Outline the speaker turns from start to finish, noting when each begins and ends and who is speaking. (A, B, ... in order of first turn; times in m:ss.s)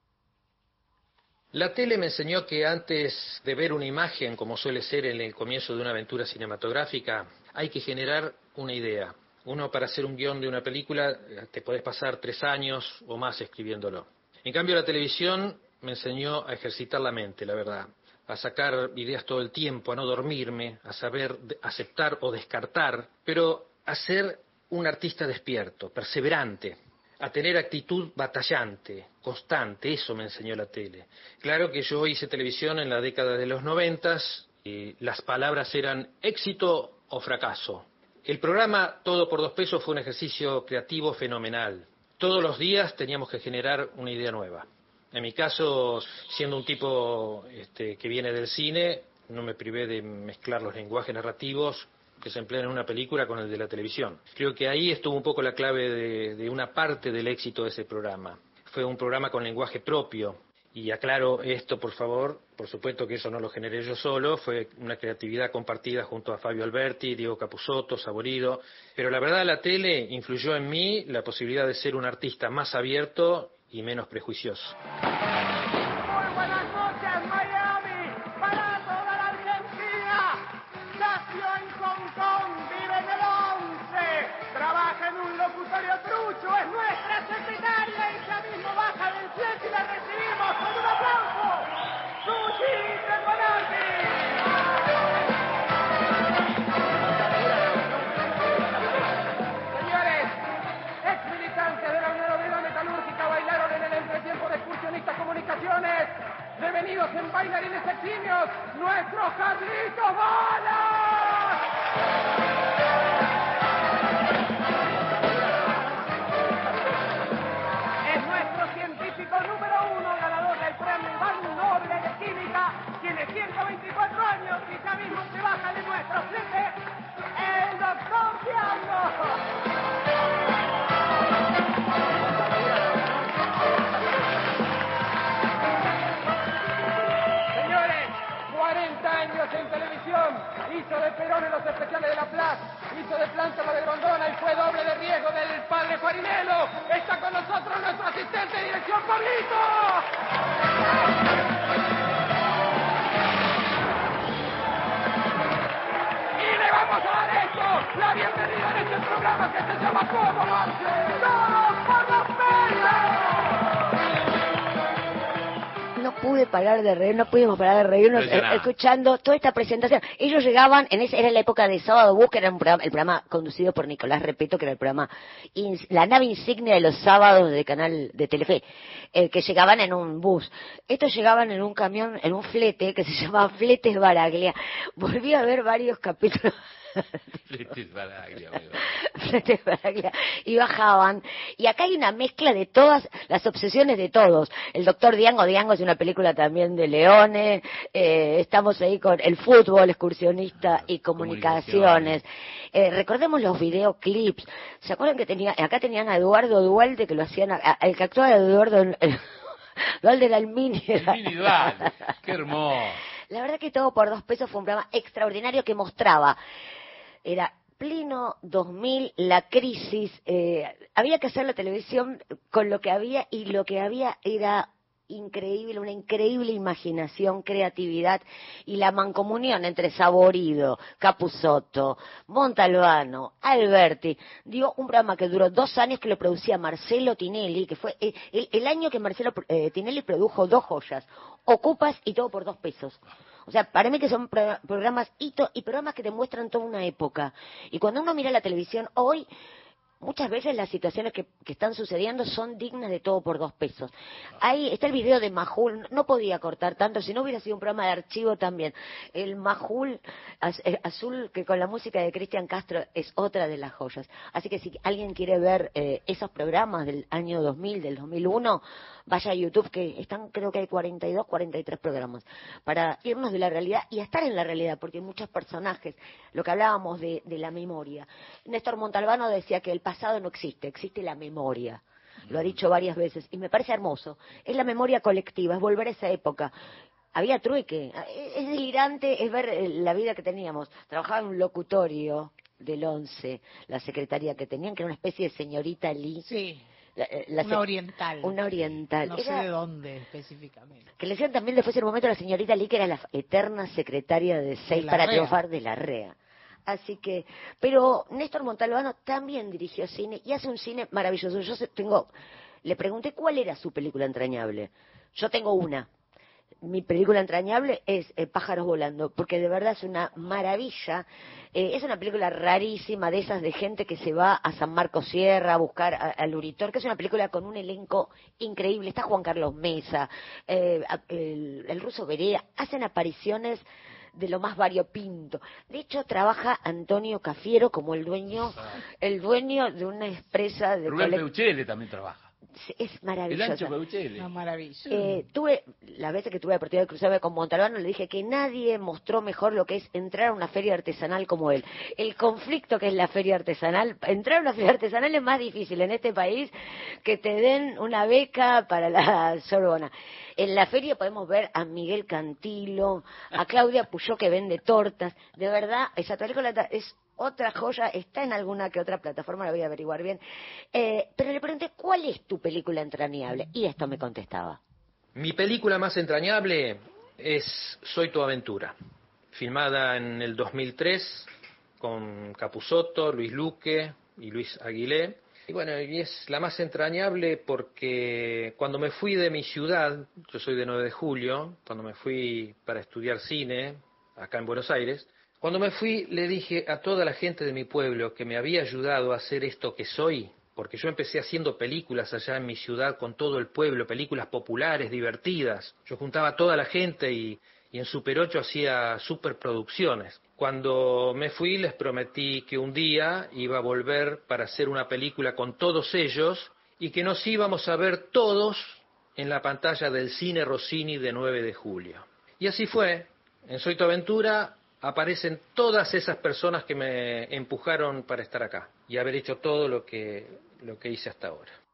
0:01.5-1:14.8 A
1:16.2-1:20.4 B
1:21.0-1:31.6 B
1:32.3-1:34.2 B
1:40.0-1:40.3 B
1:41.2-1:46.1 B
1:46.9-1:50.8 B
1:58.1-2:06.7 B
2:07.4-2:09.2 B
2:18.0-2:29.9 B
2:36.6-2:38.7 B
2:46.0-2:58.6 C
2:48.1-2:48.7 D
2:59.1-3:06.5 C
3:07.5-3:08.9 D
3:09.0-3:29.2 C
3:20.6-3:22.2 D
3:30.0-3:31.9 C
3:31.0-3:33.0 D
3:33.3-3:36.4 C
3:37.2-4:09.3 C
4:10.0-4:46.5 C
4:47.1-4:56.3 C
4:56.2-4:56.6 E
4:57.0-4:59.5 C
4:57.4-4:58.4 E
4:59.0-5:00.9 E
5:01.0-5:06.2 C
5:04.7-5:05.4 E
5:06.7-5:12.1 C
5:12.6-5:15.9 C
5:16.6-5:33.6 C
5:34.2-5:41.2 C
5:40.9-5:42.3 D
5:42.6-5:43.8 C
5:43.3-5:44.3 D
5:44.2-5:45.1 E
5:44.9-6:10.2 C
6:10.7-6:14.6 C
6:15.2-6:18.8 A
6:19.3-6:21.3 A
6:21.8-7:11.6 A